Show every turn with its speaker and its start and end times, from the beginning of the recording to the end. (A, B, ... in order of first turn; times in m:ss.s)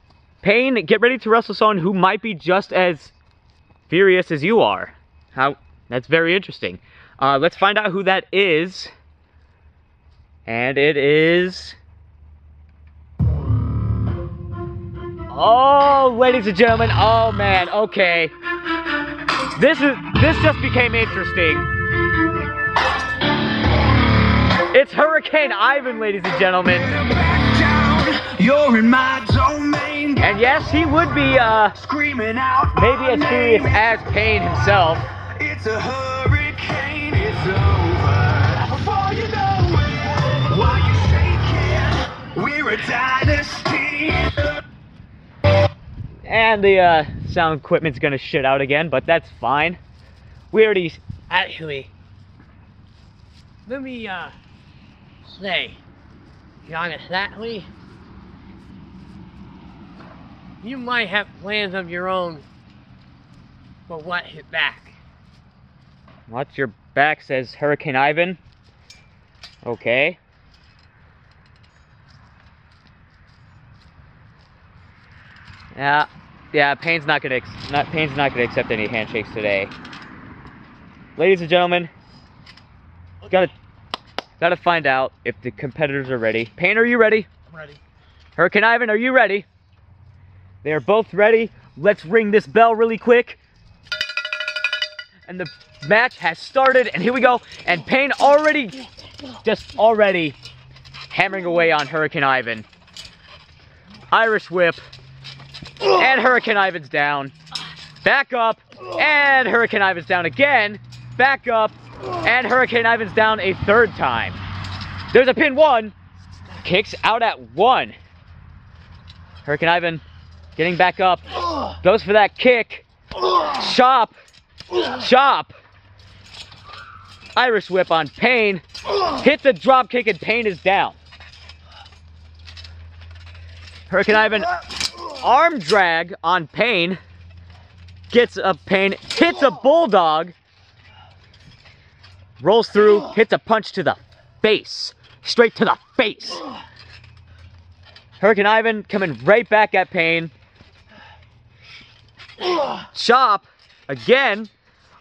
0:00.4-0:03.1 A
0:03.9-0:08.9 A
0:10.5-0:11.8 A
0:15.3-0:18.3 A
0:19.6-0:21.7 A
0:24.7-0:27.0 A
0:26.8-0:30.3 B
0:30.2-0:31.8 A
0:31.8-0:33.9 B
0:32.8-0:35.1 A
0:35.2-0:44.5 B
0:46.3-0:49.8 A
0:50.5-0:51.0 A
0:51.3-0:51.9 C
0:53.7-0:54.4 C
0:55.3-0:55.8 C
0:56.6-0:57.7 C
1:00.6-1:02.5 C
1:03.9-1:05.0 C
1:06.3-1:08.4 A
1:09.6-1:10.2 A
1:15.8-1:19.7 A
1:21.2-1:21.9 A
1:23.3-1:23.5 A
1:24.4-1:27.3 A
1:28.4-1:29.5 A
1:30.6-1:33.4 A
1:35.3-1:38.8 A
1:39.4-1:40.4 A
1:41.1-1:42.7 A
1:44.1-1:44.8 A
1:45.8-1:47.3 A
1:48.0-1:54.4 A
1:55.1-1:55.9 A
1:56.6-1:58.0 A
1:59.4-2:00.0 A
2:00.6-2:01.2 A
2:01.8-2:02.9 A
2:03.4-2:04.2 A
2:04.8-2:05.5 A
2:07.4-2:11.0 A
2:13.9-2:17.0 A
2:18.1-2:20.3 A
2:22.4-2:26.4 A
2:28.2-2:30.3 A
2:32.9-2:34.5 A